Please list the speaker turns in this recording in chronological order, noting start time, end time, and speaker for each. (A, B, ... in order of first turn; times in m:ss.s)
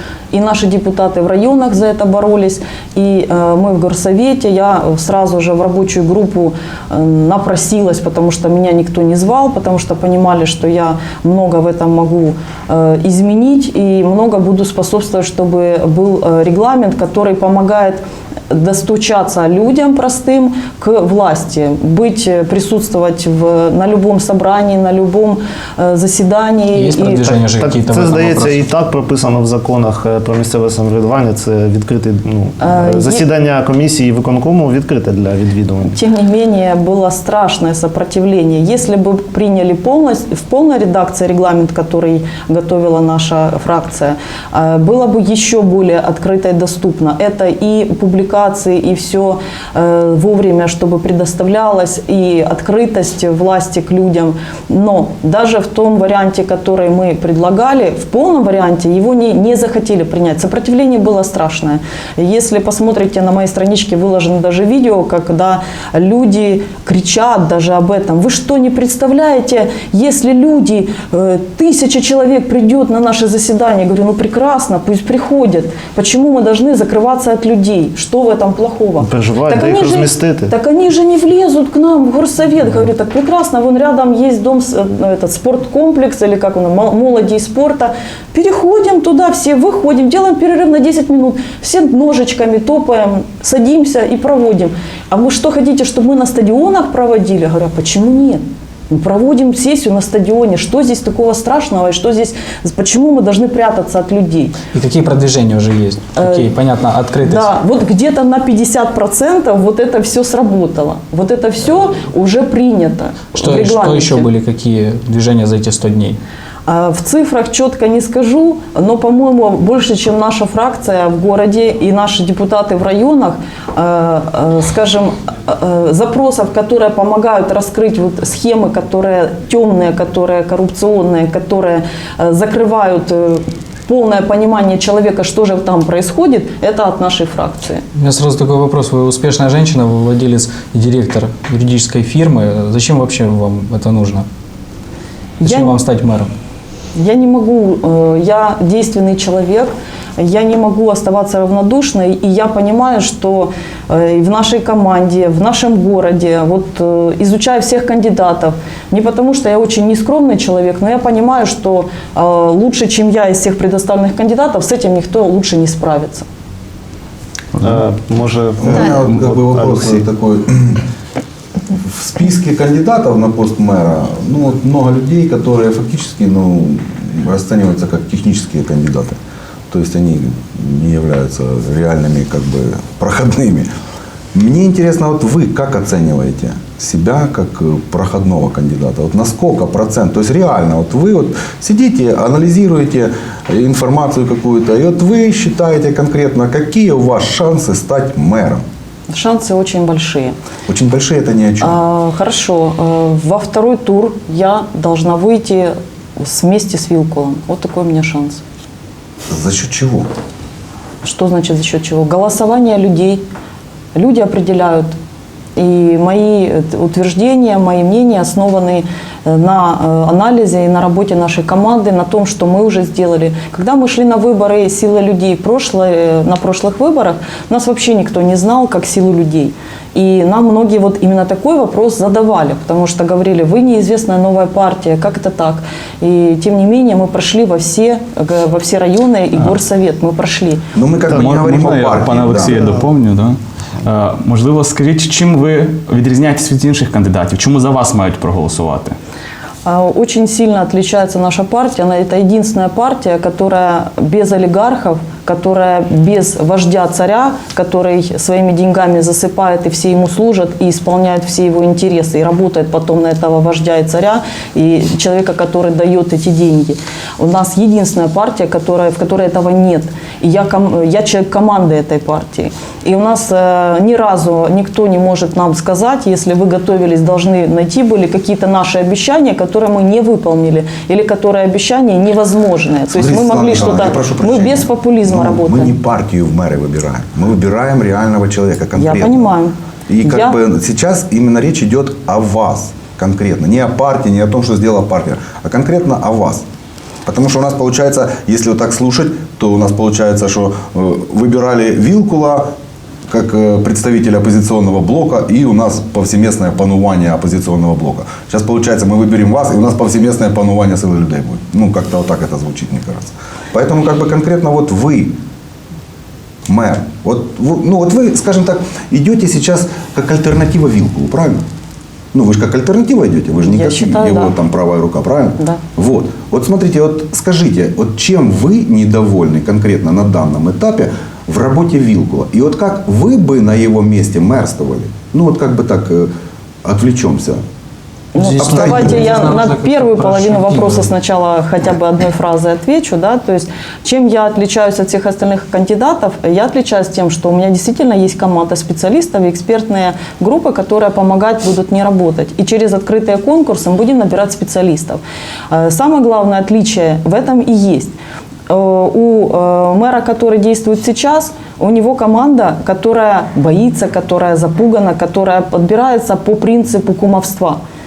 0:00.3-0:27.2 A
0:26.7-0:28.7 B
0:27.3-0:36.0 C
0:32.6-0:33.2 A
0:35.8-1:44.6 A
1:19.0-1:20.5 C
1:44.7-1:47.5 B
1:46.2-1:46.5 A
1:47.2-1:54.3 A
1:53.4-1:56.2 B
1:56.7-2:17.8 A
2:18.0-2:24.3 B
2:25.4-2:25.8 A
2:25.4-2:26.3 B
2:27.0-2:46.3 A
2:47.6-2:50.1 C
2:48.6-2:50.8 D
2:51.7-2:59.2 D
2:59.7-3:03.7 D
3:04.3-3:18.6 D
3:19.1-3:20.4 A
3:20.7-3:21.8 D
3:21.6-3:28.4 A
3:29.3-3:30.1 D
3:31.0-3:33.2 A
3:34.0-3:34.9 A
3:35.6-4:00.6 A
4:00.8-4:02.8 D
4:01.1-4:09.0 E
4:09.6-4:45.8 A
4:42.9-4:49.3 D
4:48.8-4:50.4 A
4:49.9-4:56.4 D
4:57.1-5:02.5 D
5:03.1-5:15.2 D
5:16.5-5:21.4 D
5:22.1-5:36.1 D
5:23.4-5:24.3 A
5:36.6-5:37.4 D
5:38.1-5:57.9 A
5:38.2-5:40.9 B
5:38.4-5:39.4 D
5:58.5-6:07.6 A